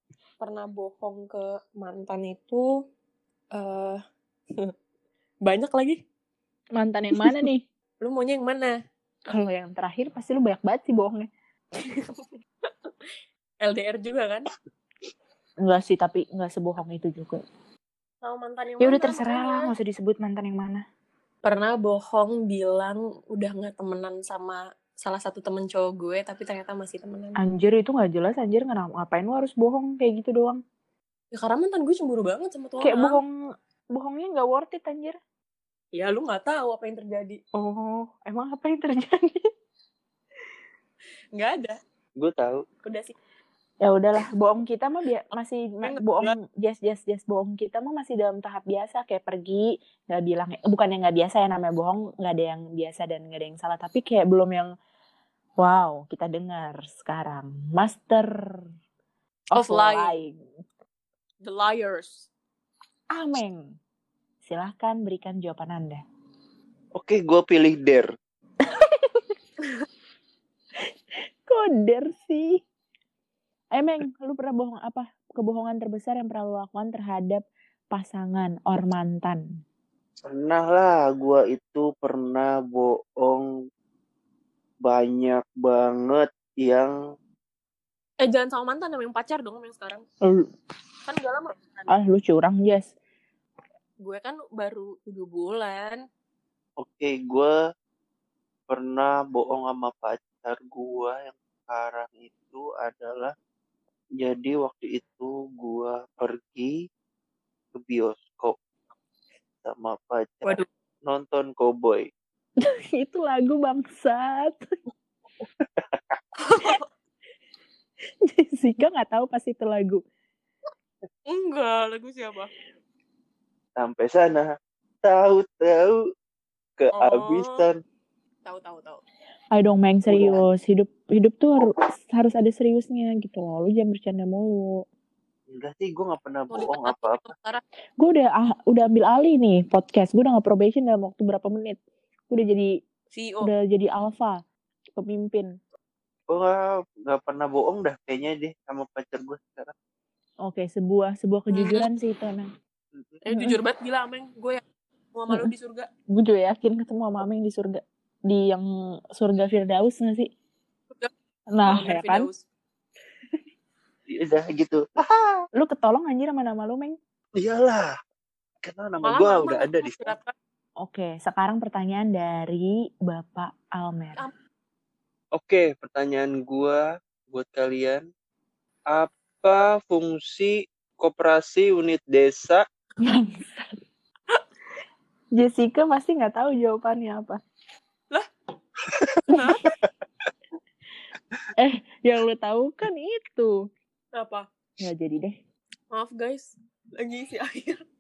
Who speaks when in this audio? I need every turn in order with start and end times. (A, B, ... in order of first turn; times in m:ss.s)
0:00.4-0:02.7 A
0:03.5-0:04.0 A
0:05.4-0:06.0 A
0:06.8-0:07.6 B
0:08.0-0:08.8 A
0:09.3-0:11.3 B
0:11.9-0:12.9 A
0:13.6-0:14.5 A
0:15.6-0:17.4 B
0:18.2-0:19.7 A
0:18.8-0:20.8 B
0:21.4-0:27.4 A
0:27.4-0:30.6 B
0:31.3-0:33.2 A
0:32.8-0:33.3 B
0:33.9-0:35.2 B
0:35.9-0:37.4 A
0:37.5-0:39.5 B
0:41.3-0:41.8 A
0:42.2-0:42.6 C
0:42.8-0:43.2 A
0:43.8-0:54.7 B
0:45.8-0:46.3 A
0:55.6-0:58.7 B
0:59.5-1:00.4 B
0:59.5-1:00.2 A
1:01.4-1:02.3 A
1:03.1-1:03.8 B
1:04.4-1:06.0 B
1:07.0-1:08.1 C
1:08.6-1:09.3 B
1:11.5-1:12.6 B
1:13.8-1:19.4 B
1:20.2-1:23.5 C
1:24.8-1:26.9 C
1:28.2-1:30.0 A
1:30.2-1:30.5 B
1:31.1-1:31.9 A
1:31.9-1:32.9 B
1:34.0-1:36.0 A
1:36.8-1:37.5 C
1:38.7-1:43.3 C
1:44.2-1:46.8 C
1:47.7-1:48.6 C
1:49.6-1:52.1 C
1:52.6-1:54.7 B
1:56.4-1:56.9 A
1:58.2-2:00.0 B
2:01.3-2:02.5 A
2:03.8-2:04.5 C
2:05.0-2:06.0 C
2:06.8-2:07.8 C
2:07.0-2:07.6 A
2:08.5-2:09.0 A
2:09.5-2:14.6 B
2:10.1-2:10.4 C
2:15.5-2:17.2 C
2:16.5-2:17.6 A
2:18.0-2:21.8 B
2:22.3-2:22.7 B
2:23.1-2:23.5 A
2:23.4-2:24.4 B
2:25.0-2:25.5 B
2:26.3-2:29.7 C
2:30.4-2:32.5 B
2:31.5-2:31.9 A
2:33.0-2:33.2 C
2:33.3-2:34.6 A
2:33.3-2:33.6 B
2:35.1-2:35.9 A
2:36.1-2:40.3 B
2:41.6-2:42.3 B
2:41.6-2:42.4 A
2:44.1-2:45.4 C
2:45.6-2:47.0 B
2:47.4-2:48.0 C
2:48.6-2:50.1 C
2:49.0-2:50.3 A
2:50.8-2:54.2 B
2:55.4-2:58.0 C
2:58.9-3:02.6 C
3:03.0-3:03.8 B
3:05.4-3:07.4 B
3:09.3-3:09.7 A
3:11.6-3:13.6 B
3:14.2-3:14.5 A
3:14.8-3:15.4 B
3:15.9-3:17.8 A